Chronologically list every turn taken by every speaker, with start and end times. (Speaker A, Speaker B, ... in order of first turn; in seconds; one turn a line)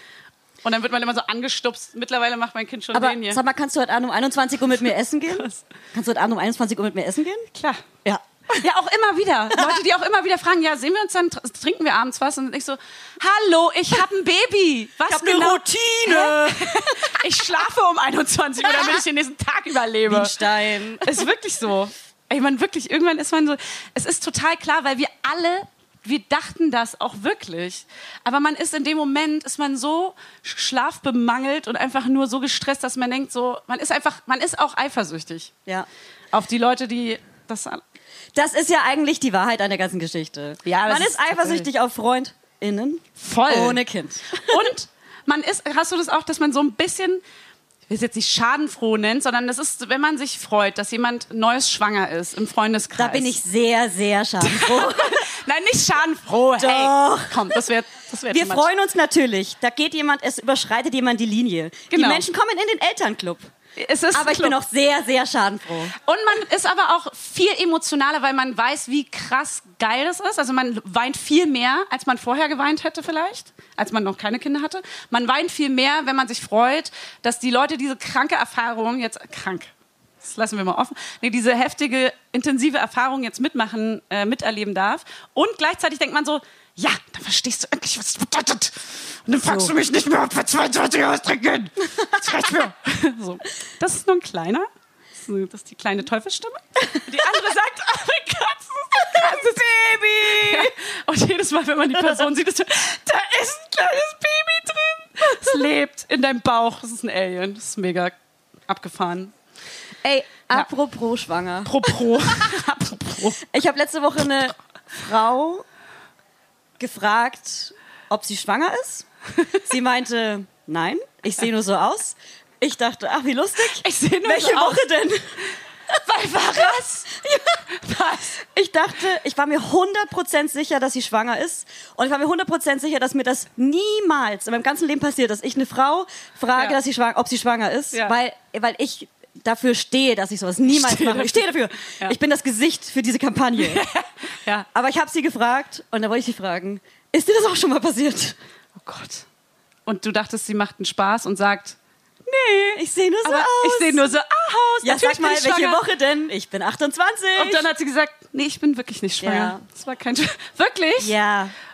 Speaker A: 0.6-3.4
Speaker B: 2.9-7.5
Speaker A: 7.5-7.8
Speaker B: 8.0-8.6
Speaker A: 8.6-20.4
Speaker B: 15.1-17.1
Speaker B: 20.1-21.2
Speaker A: 21.0-35.5
Speaker A: 36.3-37.8
Speaker B: 38.3-44.5
Speaker A: 40.6-41.7
Speaker A: 43.2-43.8
Speaker A: 44.4-47.2
Speaker A: 47.9-53.3
Speaker B: 53.0-55.2
Speaker A: 54.4-58.7
Speaker B: 56.6-57.6
Speaker B: 58.3-63.5
Speaker A: 61.9-62.2
Speaker A: 63.8-64.5
Speaker B: 64.1-65.9
Speaker A: 66.0-79.7
Speaker A: 80.2-94.7
Speaker B: 89.4-89.7
Speaker A: 95.2-108.1
Speaker B: 100.0-100.7
Speaker A: 108.7-109.3
Speaker B: 110.0-111.9
Speaker A: 111.6-113.4
Speaker B: 113.5-115.6
Speaker B: 116.8-119.0
Speaker B: 119.6-125.4
Speaker A: 123.7-124.9
Speaker A: 126.0-127.1
Speaker B: 127.1-127.6
Speaker A: 127.8-128.3
Speaker B: 128.4-143.8
Speaker A: 140.7-142.1
Speaker A: 143.6-144.7
Speaker B: 144.7-148.3
Speaker A: 148.8-149.2
Speaker A: 149.8-155.8
Speaker B: 152.8-154.0
Speaker B: 154.8-157.6
Speaker A: 157.3-161.1
Speaker B: 159.2-159.6
Speaker B: 161.0-161.5